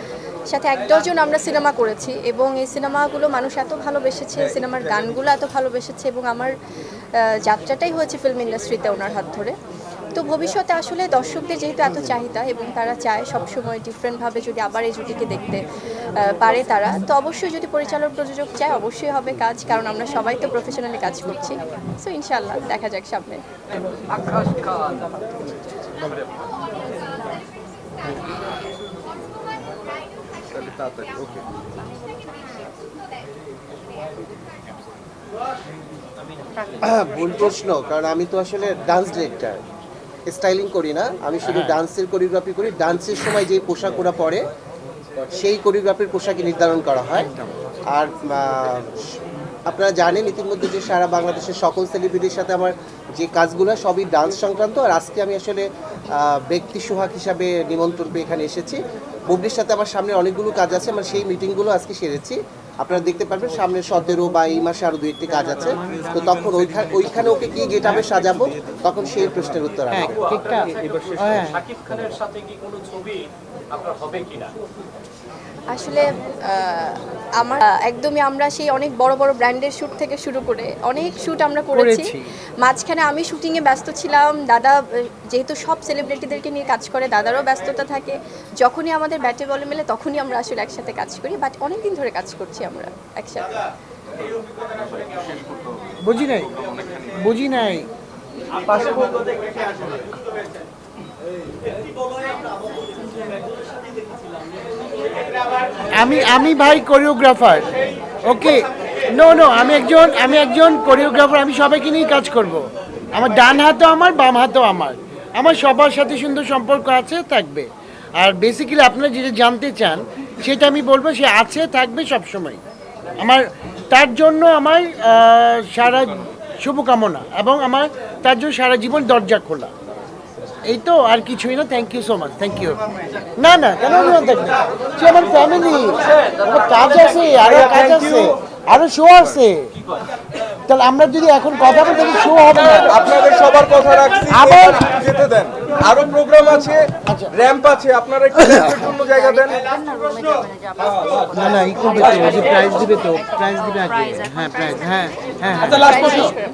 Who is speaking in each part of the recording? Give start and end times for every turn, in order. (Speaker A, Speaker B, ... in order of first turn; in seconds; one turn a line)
Speaker A: 0.5-6.5
Speaker A: 7.2-9.5
Speaker A: 10.2-15.6
Speaker A: 16.2-23.4
Speaker B: 24.2-24.8
Speaker C: 36.8-39.6
Speaker C: 40.3-44.4
Speaker D: 41.5-41.8
Speaker C: 45.3-47.3
Speaker C: 47.9-49.0
Speaker C: 49.7-70.2
Speaker D: 69.9-71.7
Speaker B: 71.7-73.2
Speaker B: 73.7-74.5
Speaker A: 75.7-82.1
Speaker D: 81.7-82.3
Speaker A: 82.6-93.5
Speaker D: 96.0-96.5
Speaker D: 97.2-97.9
Speaker D: 98.7-99.1
Speaker D: 106.0-107.7
Speaker D: 108.2-117.7
Speaker D: 118.2-122.6
Speaker D: 123.2-129.7
Speaker D: 130.7-132.8
Speaker D: 133.4-139.7
Speaker D: 140.7-143.2
Speaker E: 143.1-144.3
Speaker D: 144.3-144.9
Speaker E: 145.0-149.6
Speaker D: 147.1-147.3
Speaker D: 151.3-156.3